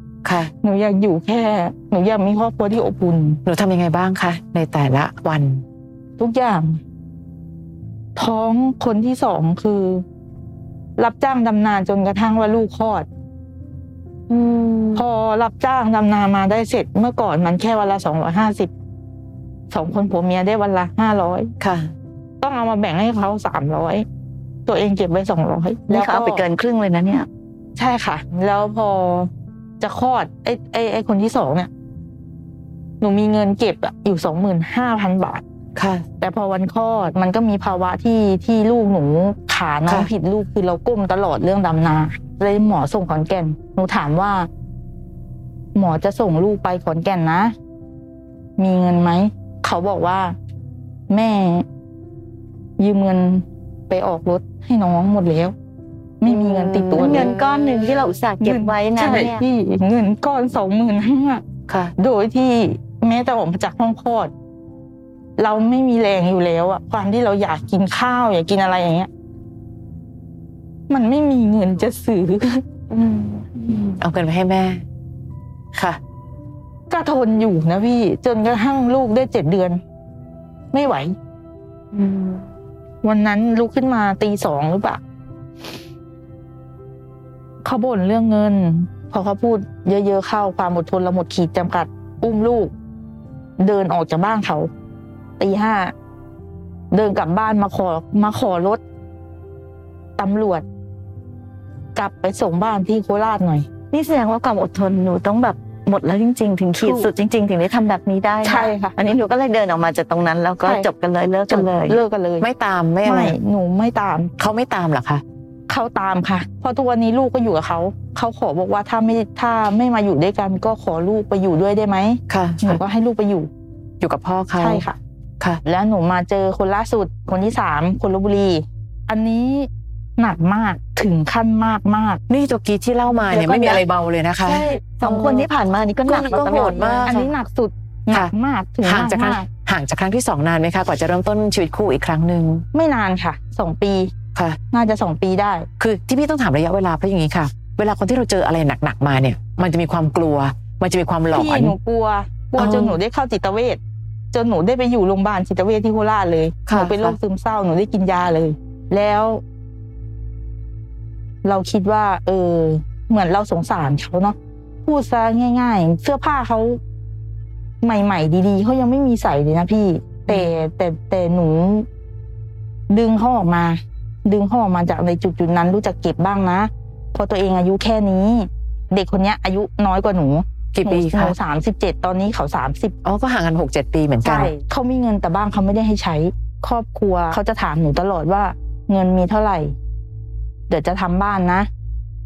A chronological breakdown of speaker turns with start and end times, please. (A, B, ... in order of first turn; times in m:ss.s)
0:00.2-0:00.5 A
0:00.6-0:03.4 B
0:03.4-0:05.6 A
0:06.2-0:06.8 B
0:08.2-0:10.0 B
0:11.0-0:13.1 B
0:14.3-0:15.0 A
0:15.0-0:18.7 B
0:19.7-0:21.5 B
0:21.6-0:21.9 A
0:22.4-0:24.1 B
0:24.7-0:26.4 B
0:25.9-0:27.3 C
0:27.8-0:31.7 B
0:33.0-0:35.4 B
0:35.8-0:36.1 A
0:36.2-0:44.5 B
0:45.8-0:47.5 B
0:48.6-0:50.4 B
0:51.1-0:51.7 B
0:52.8-0:55.6 B
0:56.2-0:57.3 B
0:56.3-0:58.2 A
0:57.0-0:59.4 C
0:58.4-1:01.4 B
1:01.7-1:01.9 A
1:02.0-1:04.3 B
1:05.4-1:09.1 B
1:10.9-1:12.6 B
1:12.9-1:14.8 A
1:15.8-1:16.0 A
1:16.9-1:19.8 B
1:20.7-1:21.2 B
1:21.9-1:22.4 A
1:23.0-1:25.0 B
1:27.6-1:32.7 B
1:33.6-1:34.7 B
1:35.4-1:35.9 B
1:36.9-1:38.8 B
1:40.2-1:40.6 B
1:42.0-1:43.7 B
1:43.9-1:52.0 C
1:46.8-1:47.1 B
1:48.4-1:49.0 B
1:51.5-1:52.5 B
1:52.4-1:53.4 A
1:53.0-1:54.3 B
1:54.4-1:55.2 A
1:55.7-2:03.5 B
2:02.3-2:02.8 A
2:04.0-2:04.8 A
2:04.6-2:05.0 B
2:05.6-2:12.2 B
2:12.3-2:14.7 A
2:13.3-2:13.8 C
2:14.4-2:15.4 B
2:15.0-2:17.1 C
2:16.1-2:19.5 B
2:16.2-2:17.3 A
2:18.8-2:22.6 A
2:22.7-2:24.1 B
2:24.7-2:25.7 B
2:25.8-2:31.8 A
2:31.3-2:33.8 B
2:32.6-2:33.0 A
2:34.3-2:39.4 B
2:36.7-2:37.2 A
2:41.4-2:46.8 B
2:47.8-2:51.9 B
2:52.9-3:03.0 B
3:00.7-3:01.4 A
3:03.0-3:04.5 A
3:04.2-3:09.7 B
3:10.7-3:11.7 B